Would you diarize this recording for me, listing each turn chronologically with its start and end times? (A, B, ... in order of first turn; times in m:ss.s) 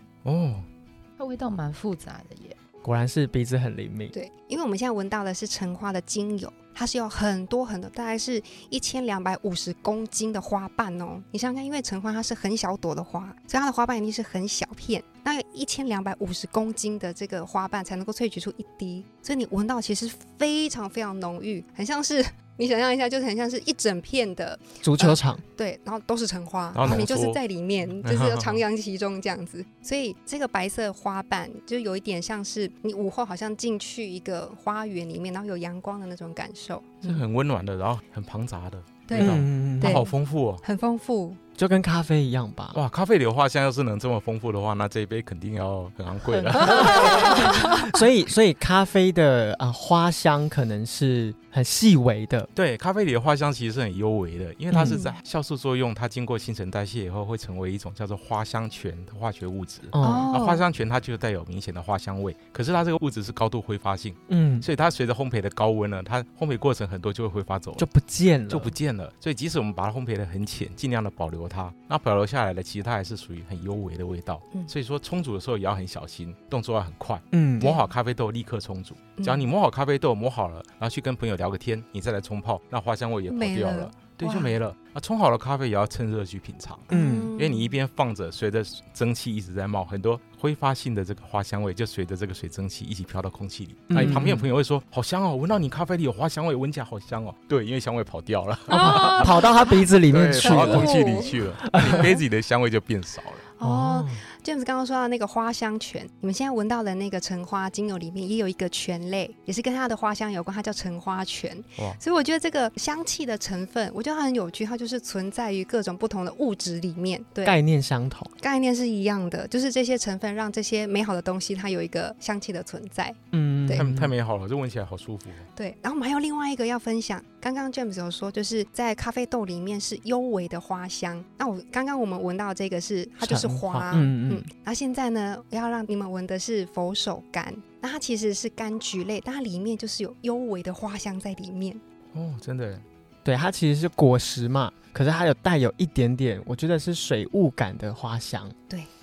0:00.2-0:00.6 A
0:01.2-0:02.6 B
0:02.8-0:04.1 C
0:04.1-0:37.1 D
0:24.8-0:25.4 C
0:26.8-0:27.4 A
0:28.0-0:28.6 A
0:37.0-0:40.6 A
0:39.1-0:41.4 D
0:39.2-0:40.0 C
0:41.6-0:42.8 C
0:42.7-0:47.7 A
0:46.3-0:47.4 B
0:46.6-0:52.5 C
0:46.8-0:47.9 D
0:52.5-1:07.9 A
0:54.7-0:55.0 C
0:54.9-0:55.1 D
0:59.9-1:00.3 C
1:00.0-1:00.6 D
1:04.3-1:04.7 C
1:07.8-1:08.7 C
1:08.5-1:39.4 A
1:17.3-1:17.8 C
1:19.2-1:19.5 D
1:23.3-1:24.5 D
1:26.9-1:27.7 D
1:26.9-1:27.3 C
1:33.9-1:34.5 C
1:38.7-1:39.8 D
1:38.7-1:42.2 C
1:40.1-1:43.4 A
1:40.4-1:42.1 D
1:43.6-1:57.6 D
1:43.6-1:44.2 C
1:57.4-1:58.3 C
1:58.4-2:03.9 D
2:03.3-2:04.1 C
2:03.7-2:05.4 A
2:05.6-2:21.8 D
2:13.2-2:14.5 C
2:22.1-2:22.8 A
2:23.2-2:28.6 C